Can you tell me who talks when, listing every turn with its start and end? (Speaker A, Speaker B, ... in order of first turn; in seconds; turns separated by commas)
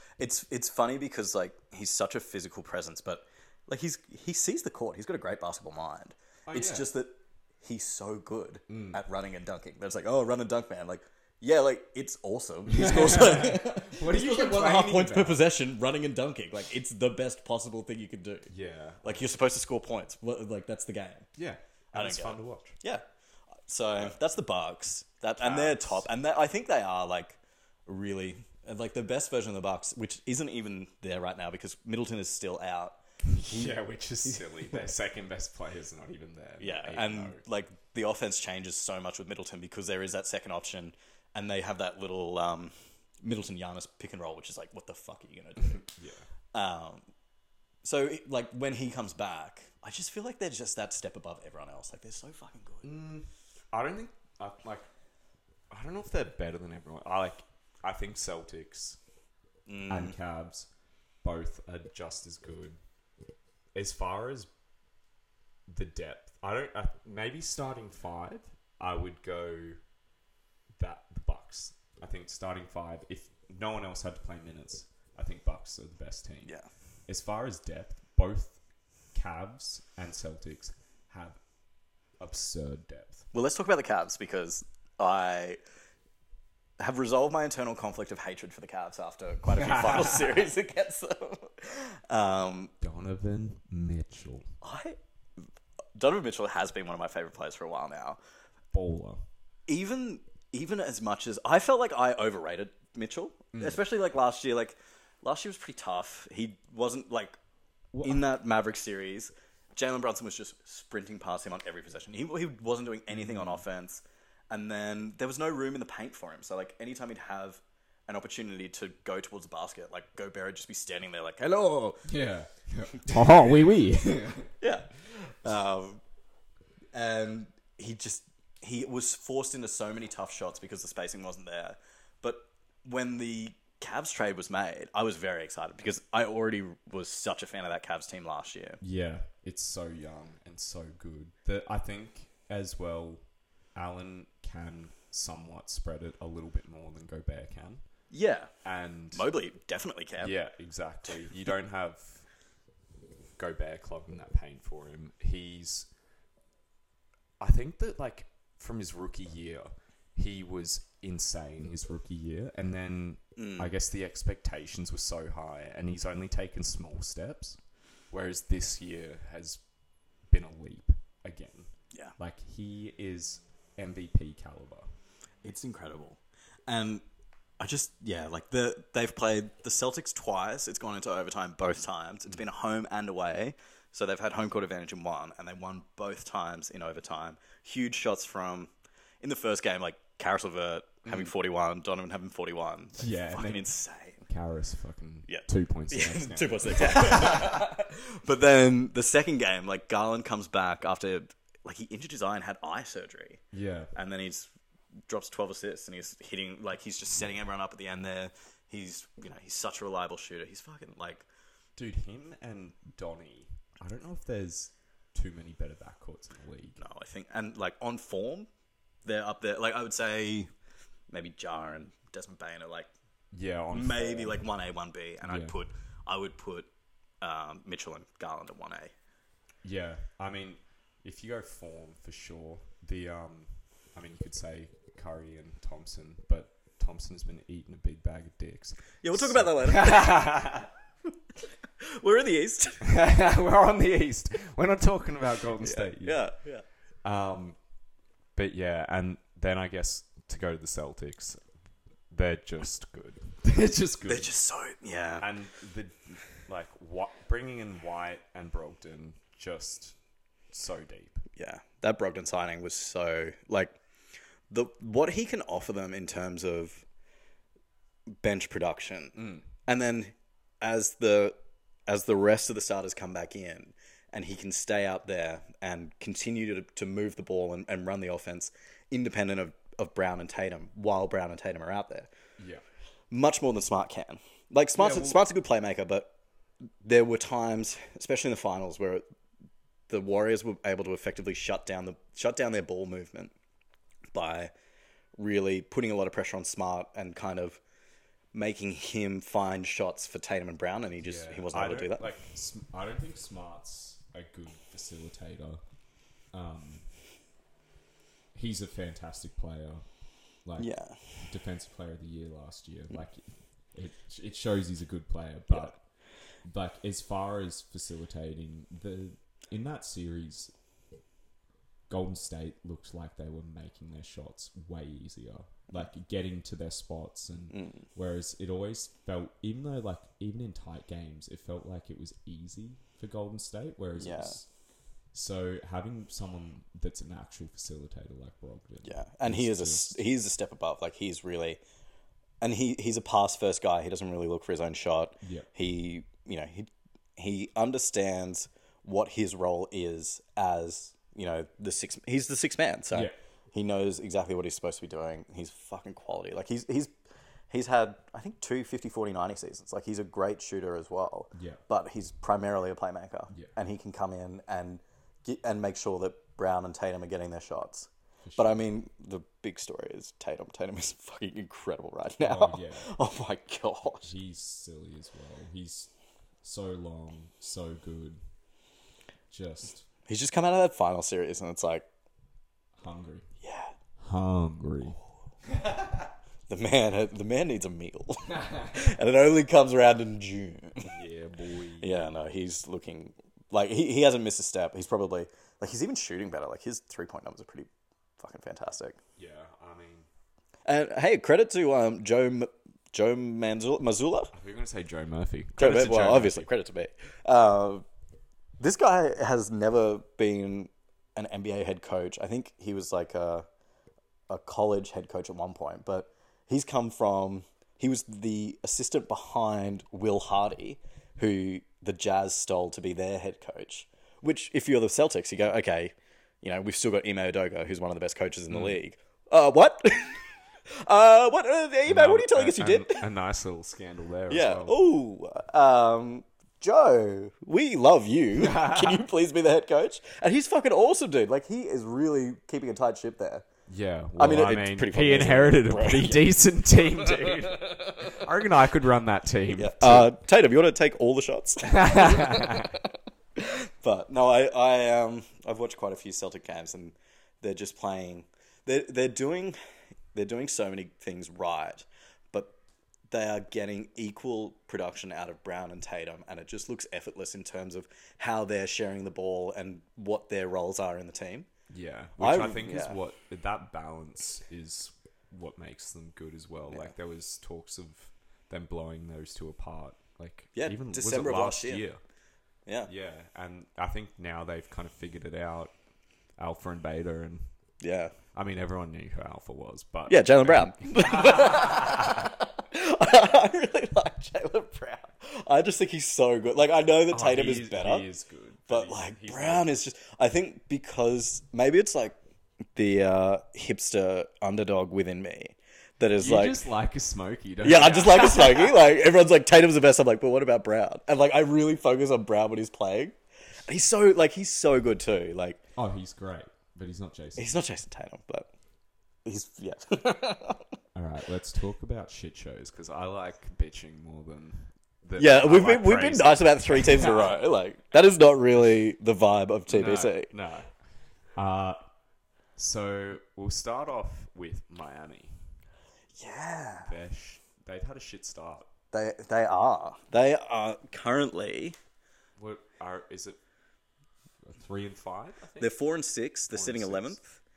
Speaker A: 0.2-18.5, Speaker B: 6.5-6.9, Speaker B: 8.7-9.0, Speaker B: 12.7-15.4, Speaker B: 18.5-19.2, Speaker A: 19.0-21.3, Speaker B: 21.4-22.8, Speaker A: 21.9-23.0, Speaker A: 23.7-34.9, Speaker B: 25.4-26.1, Speaker B: 33.3-37.4, Speaker A: 36.6-45.9, Speaker B: 45.6-46.2, Speaker A: 46.5-47.0, Speaker A: 47.8-52.9, Speaker B: 52.8-54.9, Speaker B: 55.7-59.0, Speaker A: 59.7-60.1, Speaker B: 59.9-60.7, Speaker B: 61.2-62.8, Speaker B: 63.7-64.5, Speaker B: 65.7-69.8, Speaker B: 70.8-76.5, Speaker B: 77.1-78.6, Speaker B: 79.1-81.4, Speaker B: 82.2-83.2, Speaker A: 83.3-85.6, Speaker A: 86.8-92.7, Speaker B: 89.5-90.4, Speaker B: 92.8-94.5, Speaker A: 94.6-95.0, Speaker A: 96.0-98.2, Speaker B: 98.7-99.2, Speaker A: 99.7-107.3, Speaker B: 103.5-103.8, Speaker B: 107.9-108.2, Speaker A: 108.0-122.1, Speaker B: 113.1-113.6, Speaker B: 122.0-124.5, Speaker A: 124.6-126.0, Speaker A: 126.9-138.8, Speaker B: 138.8-143.2, Speaker B: 143.7-147.8, Speaker A: 148.1-148.5, Speaker B: 148.6-149.3, Speaker A: 149.1-150.3, Speaker B: 150.2-152.3, Speaker B: 153.4-155.9, Speaker B: 157.4-167.6, Speaker A: 163.4-163.7, Speaker B: 168.1-169.6, Speaker B: 170.3-174.9, Speaker A: 175.4-177.0, Speaker A: 177.6-194.3, Speaker B: 193.0-193.7, Speaker B: 194.2-197.6, Speaker A: 195.3-203.4, Speaker B: 203.5-203.9, Speaker A: 203.9-204.5, Speaker A: 205.1-211.2, Speaker B: 211.8-216.8, Speaker A: 216.8-218.5, Speaker A: 219.0-220.5, Speaker A: 221.1-222.9, Speaker B: 223.3-224.4, Speaker A: 223.7-226.7, Speaker B: 225.2-225.6, Speaker A: 227.2-228.9, Speaker B: 229.6-240.7, Speaker A: 239.0-240.4, Speaker A: 241.8-242.8, Speaker B: 242.8-246.3, Speaker A: 245.6-246.6, Speaker B: 247.0-247.6, Speaker B: 248.3-251.4, Speaker B: 252.1-254.3, Speaker A: 254.1-255.3, Speaker B: 255.2-260.0, Speaker B: 260.5-261.2, Speaker A: 261.4-263.7, Speaker A: 264.5-266.8, Speaker A: 268.2-271.3, Speaker B: 269.2-269.4, Speaker A: 271.9-282.1, Speaker A: 283.1-286.1, Speaker B: 284.8-285.2, Speaker A: 286.8-289.0, Speaker A: 289.9-293.3, Speaker A: 294.1-294.5, Speaker A: 295.2-297.6, Speaker A: 298.3-302.1, Speaker B: 301.0-305.6, Speaker B: 306.3-306.9, Speaker B: 308.3-309.8, Speaker B: 310.4-315.8, Speaker A: 310.6-311.0, Speaker B: 316.4-320.5, Speaker B: 321.9-334.5, Speaker A: 327.5-327.8, Speaker A: 334.0-334.4, Speaker B: 335.1-340.1, Speaker A: 338.8-341.6, Speaker A: 342.4-356.9, Speaker B: 345.2-345.5, Speaker A: 357.5-374.1, Speaker B: 361.3-361.6, Speaker B: 368.2-368.6, Speaker B: 372.2-372.9, Speaker B: 374.0-375.9, Speaker B: 376.4-378.2, Speaker B: 379.3-379.9, Speaker A: 380.1-381.9, Speaker B: 382.8-383.3, Speaker A: 383.4-383.7, Speaker B: 384.0-386.1, Speaker A: 386.5-390.9, Speaker B: 388.3-388.9, Speaker B: 390.8-392.2, Speaker A: 391.8-399.0, Speaker B: 399.2-400.1, Speaker A: 400.7-404.3, Speaker B: 404.3-406.5, Speaker A: 405.6-407.8, Speaker A: 408.6-413.4, Speaker A: 414.3-430.2, Speaker B: 428.5-428.8, Speaker A: 430.8-433.0, Speaker B: 431.9-434.7, Speaker A: 434.3-443.4, Speaker B: 438.4-439.0, Speaker B: 443.7-450.1, Speaker A: 444.2-446.2, Speaker A: 447.0-448.2, Speaker A: 449.5-452.7, Speaker B: 451.7-452.7, Speaker A: 453.4-459.6, Speaker A: 460.1-462.6, Speaker A: 463.1-471.5, Speaker B: 471.7-482.0, Speaker A: 472.2-473.0, Speaker A: 480.5-481.8, Speaker B: 482.9-485.7, Speaker B: 486.4-487.4, Speaker A: 487.8-488.1, Speaker B: 488.3-492.3, Speaker A: 490.1-498.0, Speaker B: 497.1-499.6, Speaker A: 498.7-502.2, Speaker A: 502.7-506.6, Speaker B: 506.2-508.9, Speaker A: 507.6-515.6, Speaker B: 515.8-517.5, Speaker A: 517.4-518.5, Speaker A: 519.2-520.6, Speaker B: 520.9-527.4, Speaker A: 525.2-530.3, Speaker B: 529.7-530.7, Speaker B: 531.4-531.8, Speaker B: 532.5-535.6, Speaker A: 536.2-536.9, Speaker B: 536.9-538.7, Speaker A: 538.9-541.8, Speaker B: 542.4-543.4, Speaker B: 544.4-545.8, Speaker A: 545.6-547.3, Speaker B: 546.5-547.2